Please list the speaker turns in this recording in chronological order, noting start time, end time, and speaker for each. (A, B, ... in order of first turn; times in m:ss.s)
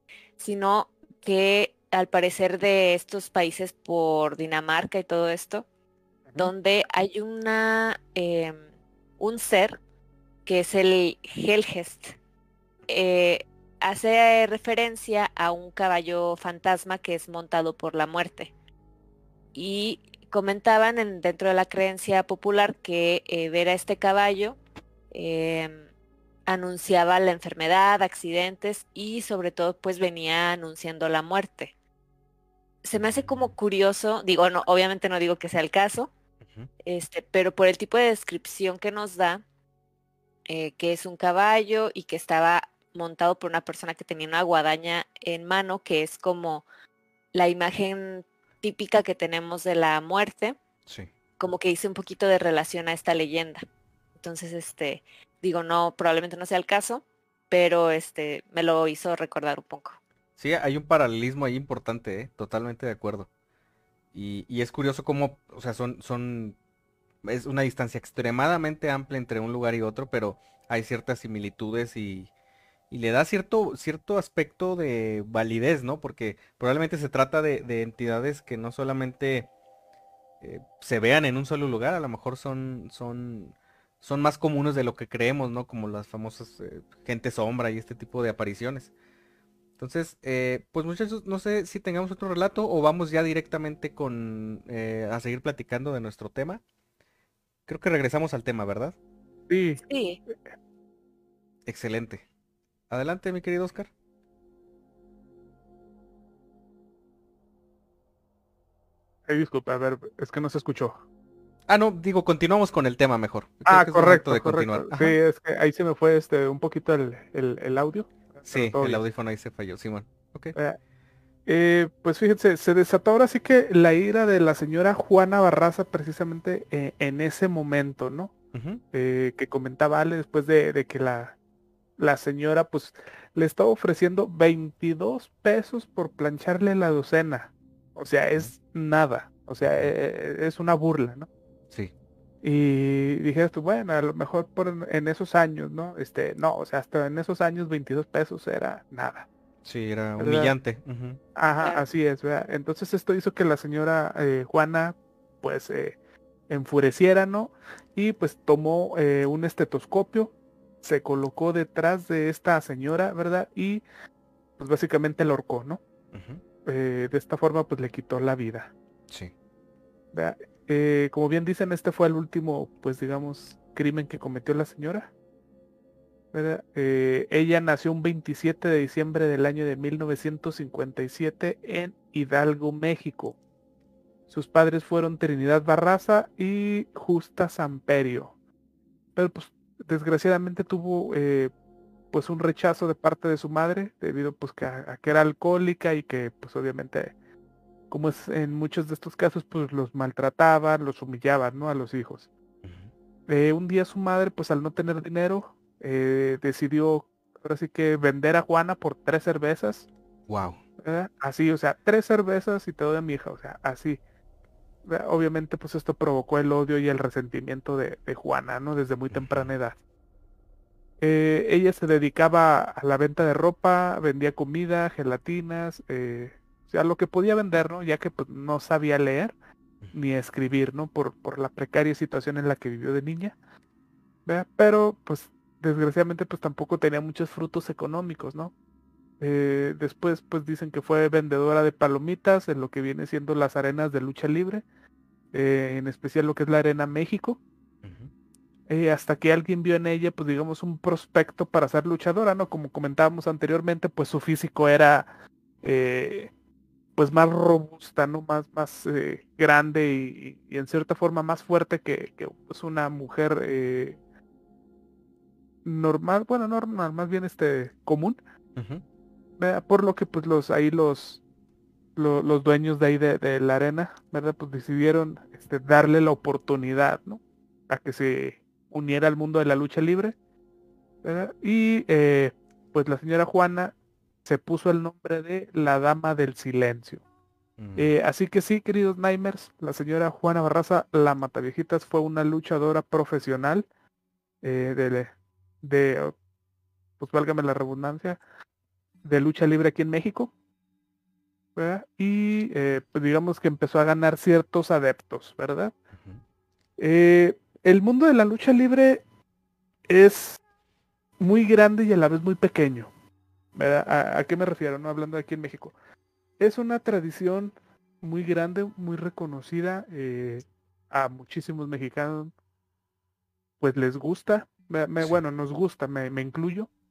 0:00.4-0:05.6 A
0:06.4-0:08.6 A
0:09.2-0:09.8 A
0:10.4-0:12.2 A
0:12.9-0:18.5 A
0:19.5-0:24.6 A
0:25.1-0:25.9 A
0:26.5-0:31.7 A
0:32.8-0:36.1 A
0:36.8-0:39.4 A
0:40.5-0:46.6 A
0:47.3-0:50.6 A
0:51.4-0:53.6 A
0:54.2-1:00.0 A
1:00.4-1:03.3 B
1:04.1-1:06.6 B
1:07.3-1:12.3 B
1:12.9-1:19.5 B
1:20.4-1:28.9 B
1:29.8-1:36.6 B
1:37.7-1:39.0 B
1:39.5-1:40.3 C
1:39.8-1:40.2 A
1:41.6-1:42.2 B
1:42.9-1:43.9 B
1:49.3-1:51.0 C
1:51.7-1:55.2 B
1:53.6-1:59.0 C
1:58.5-2:00.6 B
2:01.4-2:08.3 C
2:08.5-2:08.8 B
2:08.9-2:11.4 C
2:12.0-2:21.3 C
2:22.4-2:29.3 C
2:29.6-2:31.2 B
2:30.2-2:30.5 C
2:31.3-2:36.0 C
2:36.5-2:43.8 C
2:44.6-2:45.8 C
2:46.1-2:46.4 B
2:46.6-2:48.7 C
2:50.1-2:55.1 C
2:56.3-3:03.4 C
3:04.3-3:08.3 C
3:09.2-3:11.5 C
3:12.1-3:17.1 C
3:17.9-3:22.3 C
3:22.6-3:22.9 B
3:23.3-3:29.9 C
3:30.3-3:30.6 B
3:30.8-3:34.0 C
3:34.8-3:39.8 C
3:39.1-3:39.5 B
3:41.0-3:49.3 C
3:49.9-3:53.4 C
3:54.3-3:58.5 C
3:59.2-4:04.6 C
4:05.3-4:07.4 C
4:07.8-4:08.1 B
4:08.7-4:15.1 C
4:15.6-4:16.3 C
4:17.0-4:24.0 C
4:25.6-4:28.2 C
4:28.6-4:28.8 B
4:29.4-4:31.2 C
4:32.0-4:40.1 C
4:41.0-4:43.7 C
4:44.2-4:47.0 C
4:47.6-4:47.9 B
4:47.8-4:53.7 C
4:54.4-4:56.1 C
4:57.0-4:58.2 C
4:59.0-5:00.3 C
5:01.6-5:05.7 C
5:05.9-5:06.2 B
5:06.8-5:09.0 C
5:09.9-5:10.4 C
5:11.2-5:12.9 C
5:13.6-5:15.8 C
5:16.4-5:22.3 C
5:23.6-5:26.7 C